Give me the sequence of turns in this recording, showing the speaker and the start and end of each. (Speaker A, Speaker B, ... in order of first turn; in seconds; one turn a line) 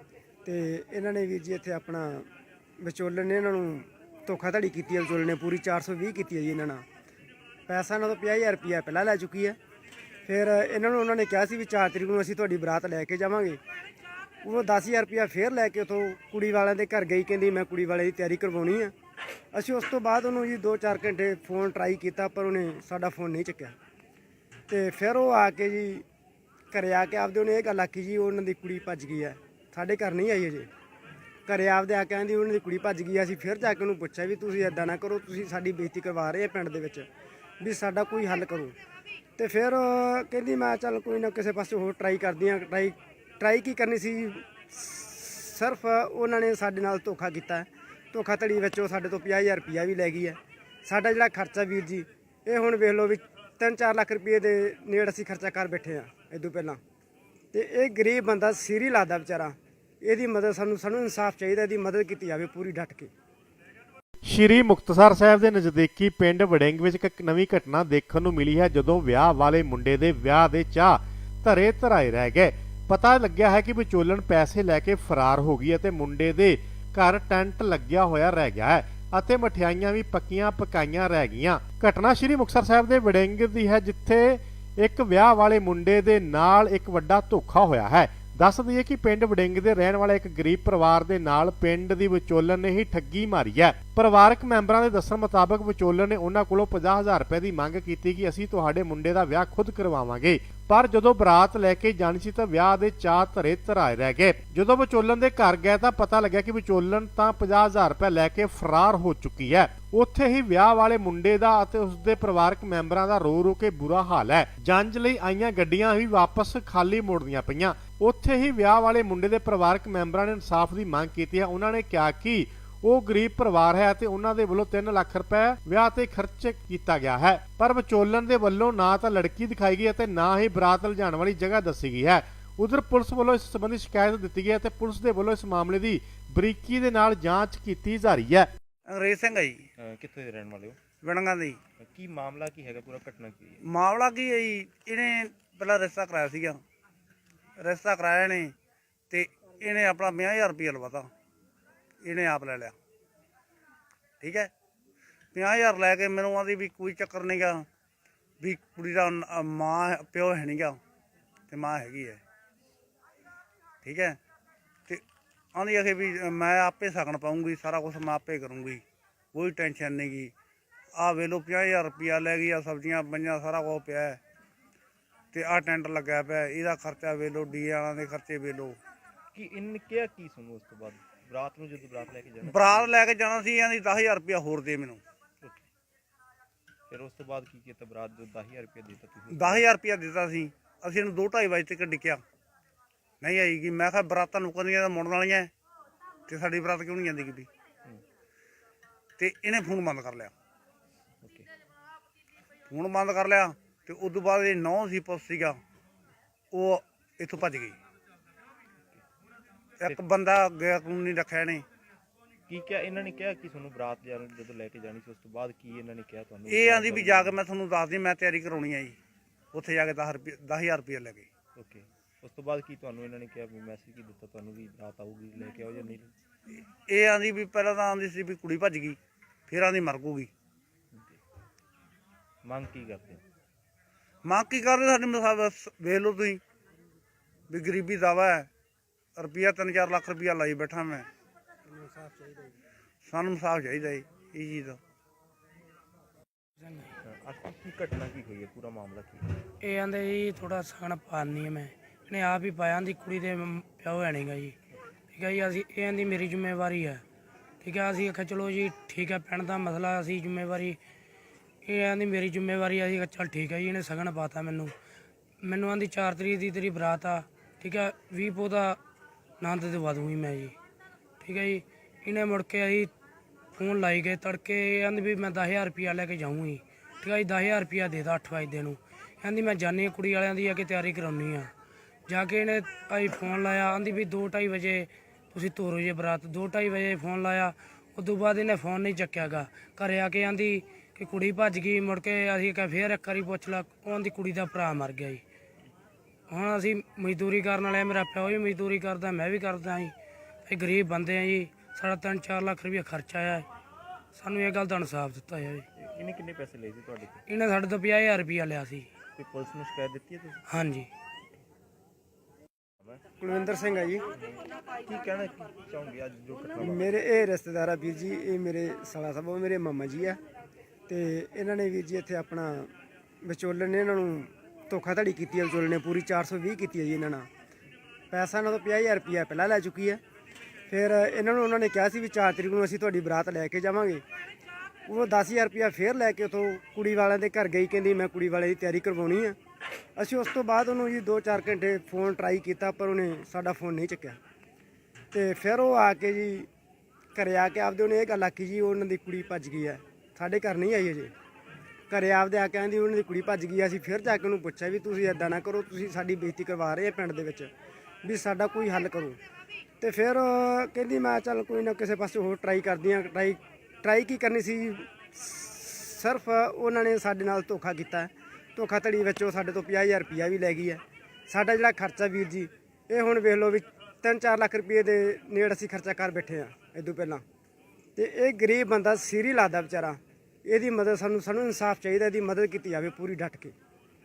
Speaker A: 0.5-6.9
Speaker A: 7.7-9.6
Speaker A: 10.2-13.6
Speaker A: 14.4-18.9
Speaker A: 19.5-23.8
Speaker A: 24.7-26.1
Speaker A: 26.7-30.7
Speaker A: 31.5-37.1
Speaker A: 37.6-38.8
Speaker A: 39.4-56.8
Speaker A: 57.5-63.1
Speaker B: 64.3-138.5
Speaker C: 138.9-139.6
Speaker D: 139.8-140.8
Speaker C: 141.0-141.6
Speaker D: 141.8-143.6
Speaker C: 143.7-146.6
Speaker C: 147.6-148.5
Speaker C: 149.1-151.1
Speaker C: 152.0-152.7
Speaker C: 154.2-154.5
Speaker C: 155.3-157.7
Speaker C: 158.4-160.8
Speaker C: 161.5-162.2
Speaker C: 163.8-164.2
Speaker C: 165.6-168.8
Speaker C: 169.3-170.3
Speaker C: 171.0-174.2
Speaker C: 175.3-178.8
Speaker D: 179.3-182.9
Speaker C: 182.5-185.0
Speaker D: 185.4-185.7
Speaker D: 186.9-189.7
Speaker C: 189.3-192.2
Speaker C: 193.2-195.5
Speaker C: 196.3-197.5
Speaker C: 199.2-200.3
Speaker D: 201.2-201.5
Speaker C: 202.7-205.6
Speaker C: 206.5-207.8
Speaker C: 209.8-211.7
Speaker D: 212.5-217.4
Speaker C: 216.5-219.0
Speaker C: 219.5-221.3
Speaker D: 221.6-226.1
Speaker C: 226.9-230.3
Speaker D: 230.9-231.2
Speaker D: 232.4-233.2
Speaker C: 234.3-236.4
Speaker C: 237.5-238.5
Speaker C: 239.2-241.1
Speaker A: 241.9-242.5
Speaker C: 243.0-244.8
Speaker E: 246.6-246.9
Speaker D: 247.0-249.3
Speaker E: 249.6-254.6
Speaker E: 255.1-257.0
Speaker E: 257.6-260.8
Speaker E: 261.6-264.7
Speaker E: 265.4-268.8
Speaker E: 269.4-270.6
Speaker E: 271.2-272.9
Speaker E: 273.6-281.5
Speaker E: 282.1-295.2
Speaker E: 296.3-299.9
Speaker E: 300.5-303.5
Speaker E: 304.1-305.7
Speaker D: 305.8-307.2
Speaker E: 307.3-308.9
Speaker D: 309.2-310.4
Speaker E: 310.5-310.9
Speaker D: 312.8-313.0
Speaker A: 313.2-314.0
Speaker D: 314.1-317.0
Speaker A: 316.6-320.2
Speaker A: 320.9-322.7
Speaker A: 323.2-327.3
Speaker A: 328.1-330.0
Speaker A: 330.7-334.0
Speaker A: 334.9-339.4
Speaker A: 340.0-344.2
Speaker A: 345.1-346.5
Speaker A: 347.1-351.1
Speaker A: 351.9-357.5
Speaker A: 358.0-359.2
Speaker A: 359.8-377.2
Speaker A: 378.0-383.5